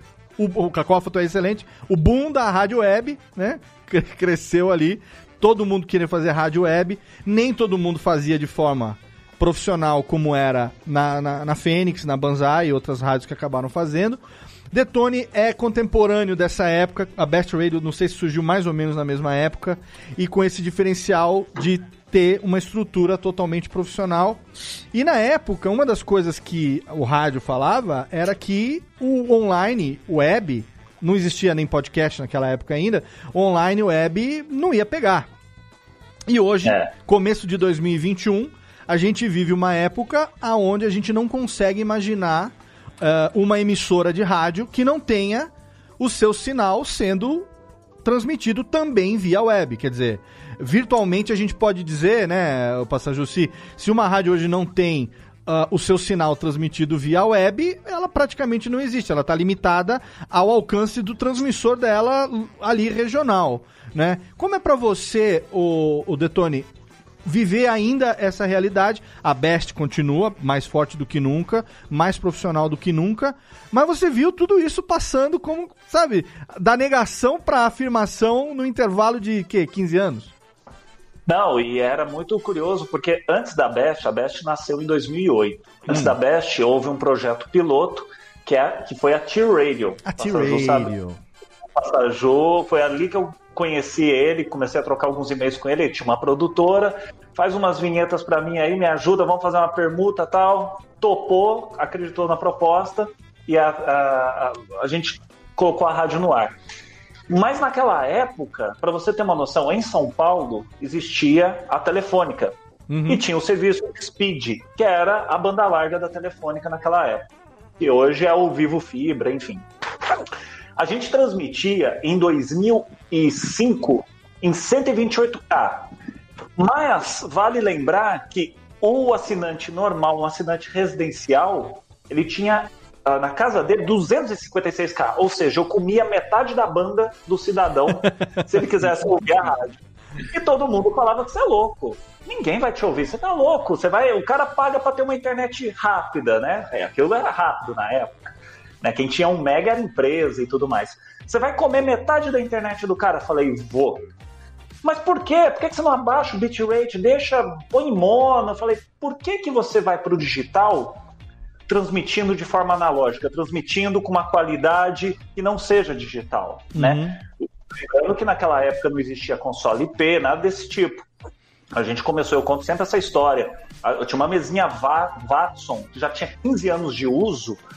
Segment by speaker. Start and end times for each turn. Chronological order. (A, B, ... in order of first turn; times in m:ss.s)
0:00.4-0:24.4 A
0:24.9-0:35.3 A
0:36.3-0:47.5 A
0:36.6-0:36.9 B
0:48.0-1:06.7 A
1:07.2-1:20.3 A
1:21.3-1:30.9 B
1:25.9-1:26.2 A
1:30.0-1:31.2 A
1:31.8-1:46.6 B
1:47.3-1:52.6 B
1:52.9-1:53.2 A
1:53.1-1:57.3 B
1:57.8-1:59.6 B
2:00.8-2:05.9 B
2:06.6-2:34.0 B
2:18.0-2:18.3 A
2:34.8-2:41.0 B
2:41.7-2:51.0 B
2:46.8-2:47.2 A
2:51.7-2:57.6 B